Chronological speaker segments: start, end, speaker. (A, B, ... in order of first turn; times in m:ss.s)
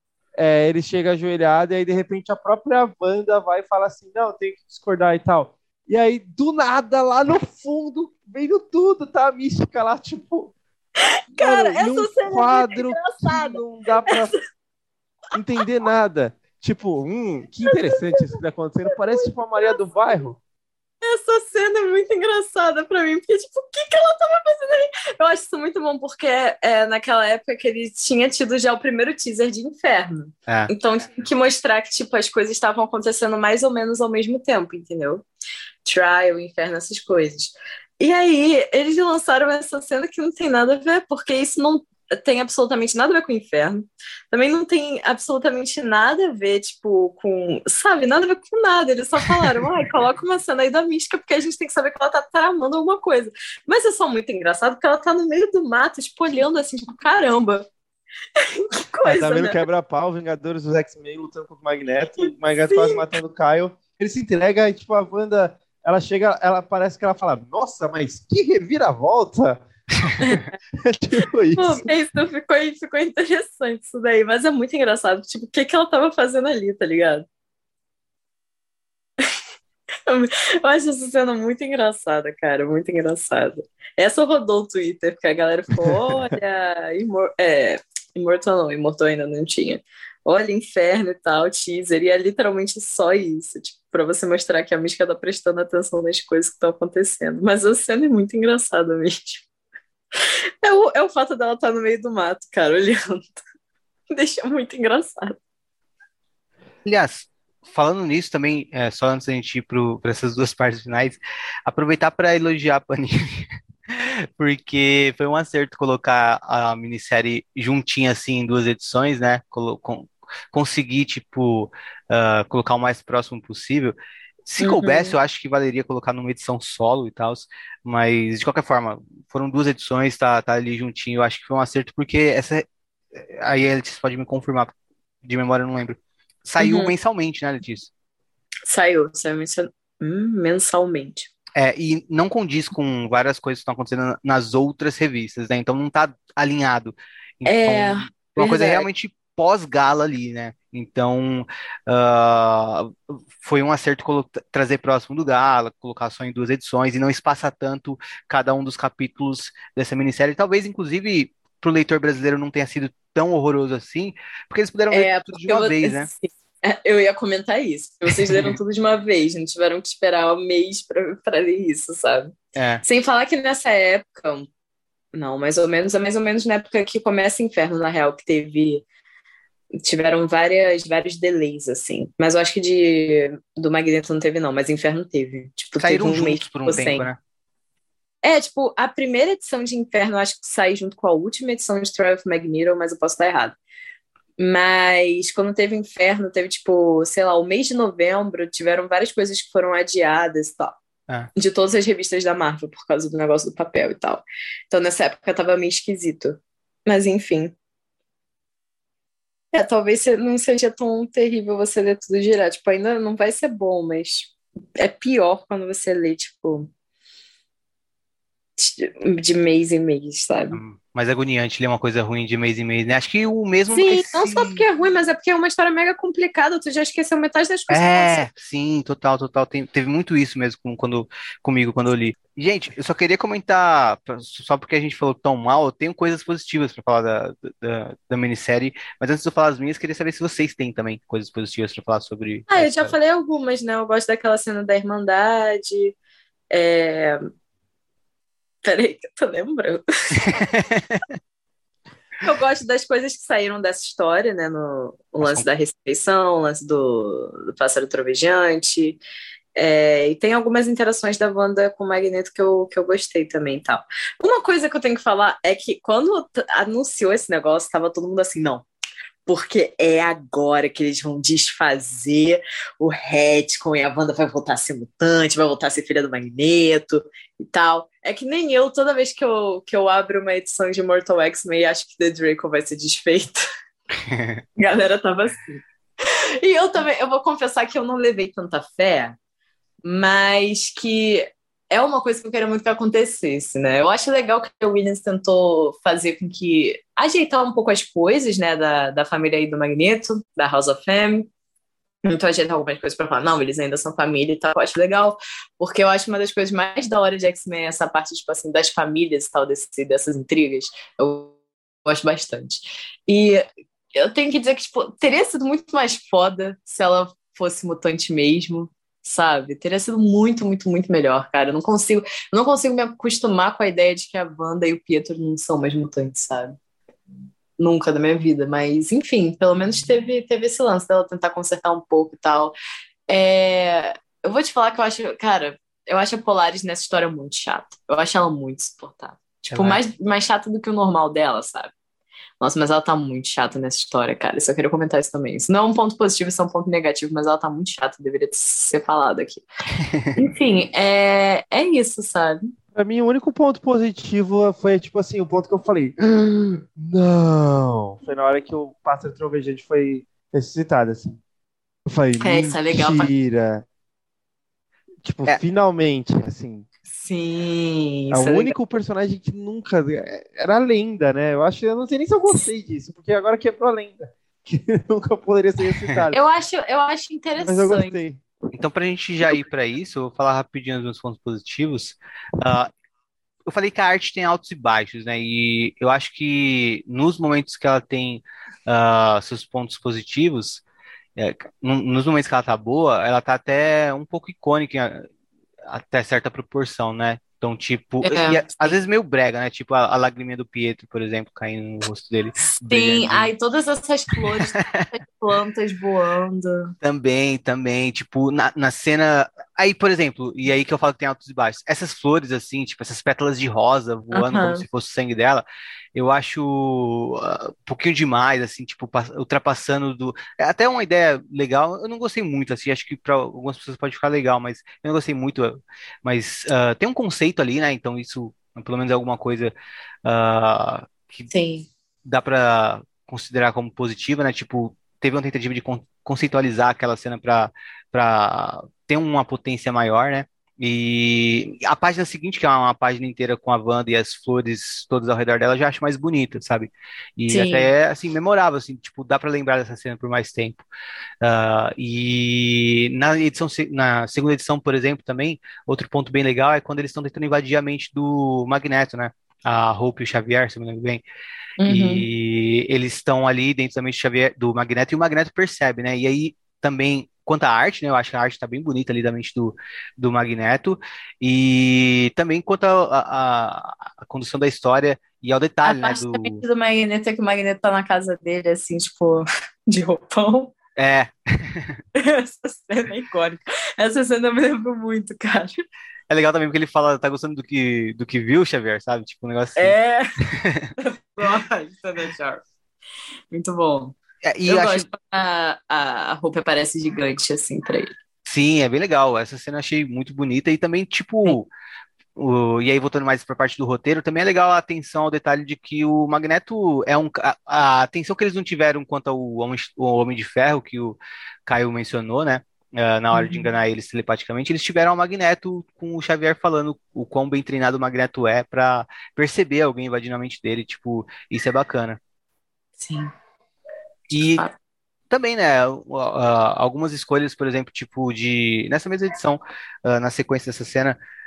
0:00.4-0:10.5 A
0:11.0-0:14.4 B
0:11.4-0:14.4 A
0:15.3-0:20.4 A
0:17.6-0:18.4 B
0:19.0-0:19.8 B
0:21.0-0:35.2 B
0:35.8-0:57.7 B
0:58.4-0:59.6 B
0:59.0-1:09.6 A
1:02.2-1:03.0 B
1:10.2-1:10.5 B
1:10.8-1:11.9 A
1:11.6-1:17.2 B
1:20.1-1:39.5 B
1:40.6-1:43.4 B
1:44.1-1:45.4 B
1:46.8-2:04.0 C
2:04.5-2:14.7 C
2:04.6-2:05.1 B
2:15.2-2:17.9 C
2:16.6-2:16.9 B
2:18.7-2:21.3 B
2:21.6-2:46.1 C
2:27.4-2:28.9 B
2:44.9-2:54.5 B
2:48.1-2:48.6 C
2:52.6-2:52.8 C
2:55.1-2:58.8 B
2:59.8-3:07.1 B
3:05.8-3:07.2 C
3:08.2-3:13.6 B
3:14.4-3:20.8 B
3:21.4-3:27.5 B
3:29.5-3:36.7 B
3:38.6-3:40.6 B
3:40.5-3:44.6 C
3:43.7-3:48.3 B
3:47.7-4:02.9 C
4:02.5-4:06.0 B
4:06.5-4:07.2 B
4:08.6-4:09.8 B
4:10.2-4:11.0 C
4:12.2-4:19.0 B
4:19.6-4:28.7 B
4:29.3-4:43.4 B
4:44.1-4:44.4 C
4:44.6-4:45.6 B
4:46.4-4:49.2 B
4:49.8-5:01.3 B
5:02.0-5:11.3 B
5:11.8-5:13.4 B
5:14.0-5:26.6 B
5:27.6-5:32.6 B
5:33.1-5:41.7 B
5:39.5-5:39.8 C
5:42.4-5:49.5 B
5:50.2-5:52.5 B
5:52.7-6:01.2 A
6:01.9-6:03.6 A
6:02.2-6:03.1 B
6:05.0-6:06.7 A
6:06.9-6:08.6 B
6:08.1-6:16.2 A
6:15.7-6:16.1 C
6:16.1-6:18.0 B
6:17.4-6:18.2 A
6:18.5-6:22.7 C
6:23.5-6:30.6 C
6:31.2-6:35.1 C
6:35.7-6:43.3 C
6:38.0-6:38.8 B
6:42.6-6:46.7 B
6:44.2-6:44.9 C
6:46.8-6:55.4 C
6:54.1-6:54.6 B
6:56.0-7:09.5 C
7:10.0-7:11.3 C
7:11.3-7:11.7 B
7:12.0-7:30.6 C
7:27.3-7:27.7 B
7:31.2-7:41.0 C
7:41.6-7:42.1 B
7:41.7-7:56.4 C
7:55.6-8:00.5 B
8:00.8-8:01.8 C
8:02.0-8:05.6 B
8:06.1-8:10.7 C
8:09.6-8:10.2 B
8:10.8-8:12.4 B
8:13.3-8:14.0 B
8:14.2-8:14.9 C
8:14.5-8:17.9 B
8:18.3-8:21.5 C
8:22.2-8:42.0 C
8:33.1-8:33.5 B
8:42.8-8:43.1 B
8:44.1-8:44.5 C
8:45.1-8:51.0 C